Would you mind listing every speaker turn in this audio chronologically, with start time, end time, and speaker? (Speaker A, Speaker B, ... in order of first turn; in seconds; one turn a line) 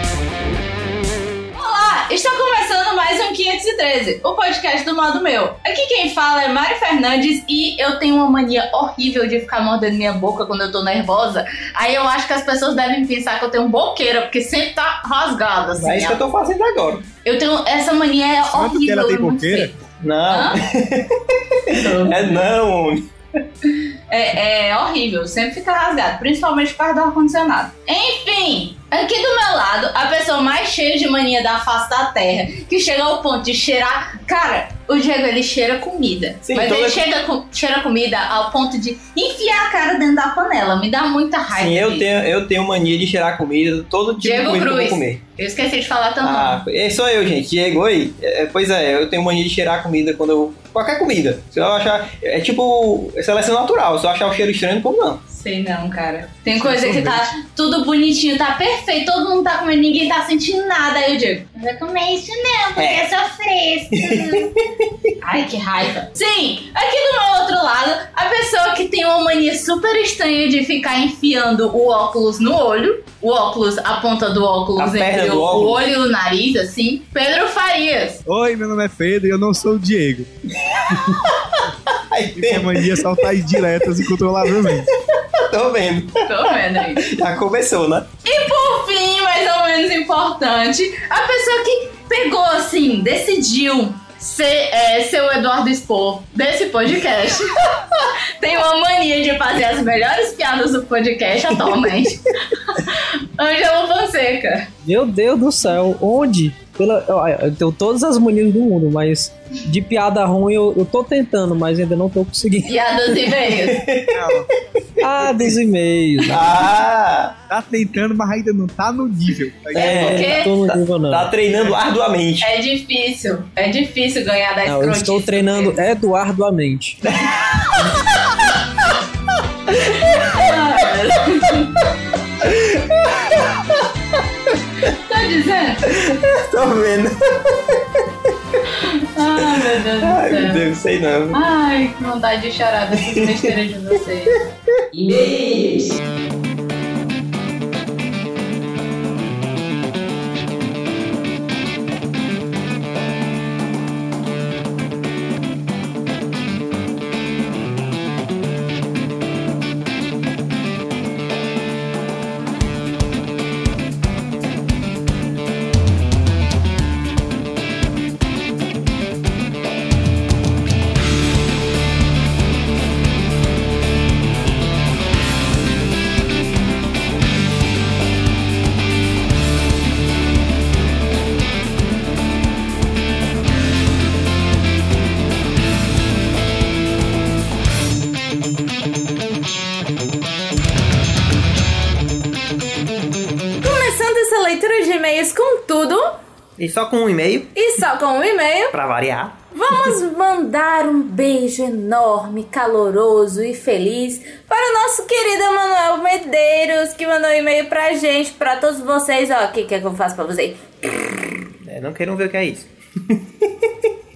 Speaker A: 1.5-16.2
Speaker B: 15.8-17.0
Speaker A: 17.2-19.7
Speaker C: 18.5-19.7
Speaker B: 20.0-23.1
Speaker A: 20.3-20.6
Speaker A: 21.7-22.4
Speaker A: 24.1-42.0
Speaker B: 36.5-37.0
Speaker B: 41.5-45.2
Speaker A: 44.2-46.6
Speaker B: 46.2-55.2
Speaker A: 55.3-64.5
Speaker D: 56.5-57.3
Speaker B: 62.8-63.0
Speaker B: 63.9-64.9
Speaker A: 65.2-78.2
Speaker B: 74.8-75.8
Speaker C: 78.2-80.3
Speaker B: 80.6-84.0
Speaker C: 82.3-84.9
Speaker B: 84.6-86.4
Speaker A: 86.2-87.0
Speaker B: 86.9-88.1
Speaker A: 88.2-104.7
Speaker D: 104.8-112.8
Speaker A: 112.7-113.8
Speaker B: 113.5-114.4
Speaker C: 114.1-114.5
Speaker B: 115.0-115.5
Speaker D: 115.0-116.6
Speaker B: 116.3-117.3
Speaker C: 117.5-120.0
Speaker A: 119.7-120.5
Speaker D: 119.8-121.3
Speaker B: 119.8-122.5
Speaker A: 122.4-125.8
Speaker D: 124.6-127.0
Speaker B: 127.1-127.9
Speaker D: 127.8-128.0
Speaker A: 129.7-131.7
Speaker B: 132.4-133.8
Speaker A: 134.9-135.9
Speaker B: 135.9-138.0
Speaker A: 138.7-140.7
Speaker B: 139.5-141.4
Speaker A: 141.3-144.4
Speaker B: 143.0-143.5
Speaker E: 145.0-145.9
Speaker E: 193.6-196.0
Speaker B: 196.6-197.5
Speaker E: 197.5-198.7
Speaker B: 198.7-199.4
Speaker E: 199.5-211.3
Speaker B: 211.6-213.7